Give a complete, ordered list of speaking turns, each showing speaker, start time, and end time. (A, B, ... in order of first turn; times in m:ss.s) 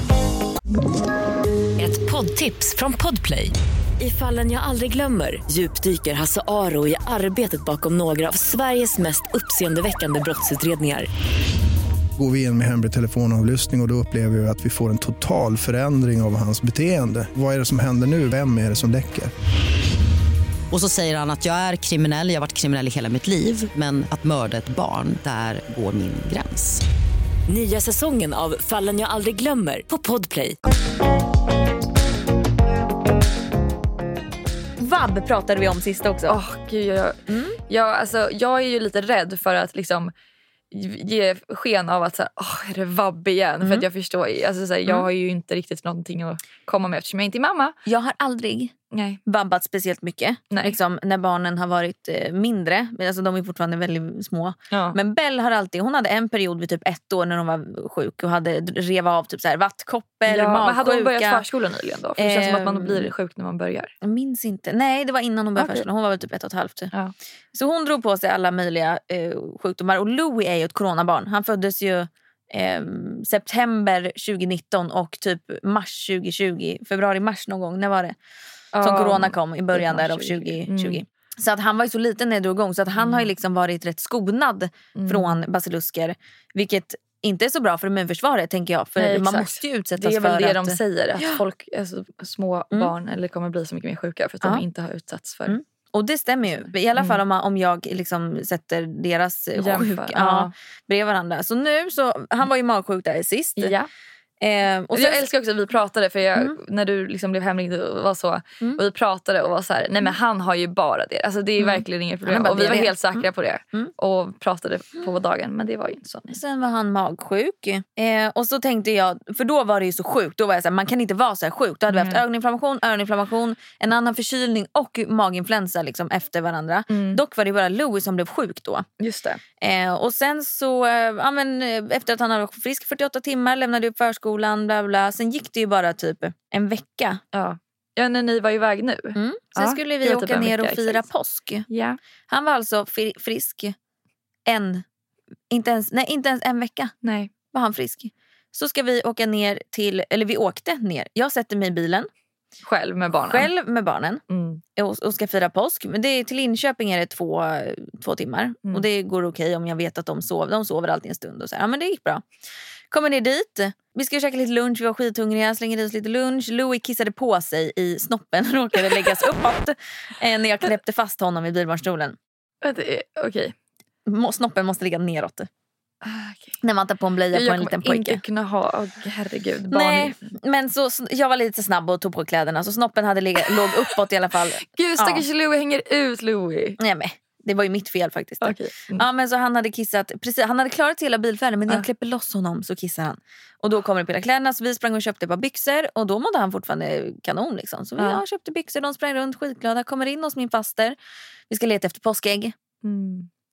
0:01.8-0:11.1 A
0:12.2-0:19.3 B
0:20.7-0:26.8 C
0:27.5-0:30.6 A
0:34.8-0:36.4 D
0:36.3-0:40.1 E
0:37.3-0:37.6 D
0:40.7-0:47.8 E
0:43.6-0:43.9 D
0:47.8-0:48.7 D
0:48.9-0:49.2 E
0:49.2-1:01.4 D
0:50.5-0:50.8 E
0:54.7-0:55.0 E
1:00.2-1:03.9 E
1:02.2-1:03.1 D
1:04.0-1:06.9 D
1:05.6-1:05.8 E
1:07.5-1:18.1 D
1:18.7-1:21.0 E
1:18.8-1:31.4 D
1:23.0-1:23.3 E
1:24.9-1:25.4 E
1:29.0-1:35.6 E
1:35.5-1:43.7 D
1:36.6-1:37.2 E
1:39.6-1:40.5 E
1:43.6-1:43.9 E
1:44.4-1:45.3 D
1:44.9-1:56.4 E
1:51.6-1:53.9 D
1:56.3-2:08.8 D
2:01.9-2:02.2 E
2:06.9-2:07.2 E
2:09.0-2:09.4 E
2:09.6-2:17.2 D
2:17.3-2:21.0 E
2:19.1-2:21.6 D
2:21.7-2:22.0 E
2:22.3-2:23.7 D
2:24.4-2:24.8 D
2:25.5-2:26.9 D
2:27.0-2:27.3 E
2:27.5-2:32.1 D
2:32.6-2:33.5 E
2:33.2-2:34.2 D
2:34.3-2:34.6 E
2:34.8-2:42.2 D
2:42.9-2:52.2 D
2:52.6-2:53.5 E
2:54.0-2:55.5 D
2:56.0-2:56.6 E
2:56.6-2:58.2 D
2:57.3-3:00.3 E
2:59.7-3:05.2 D
3:03.5-3:03.9 E
3:04.6-3:06.8 E
3:06.8-3:21.0 D
3:08.4-3:09.0 E
3:21.5-3:22.5 D
3:22.8-3:23.3 E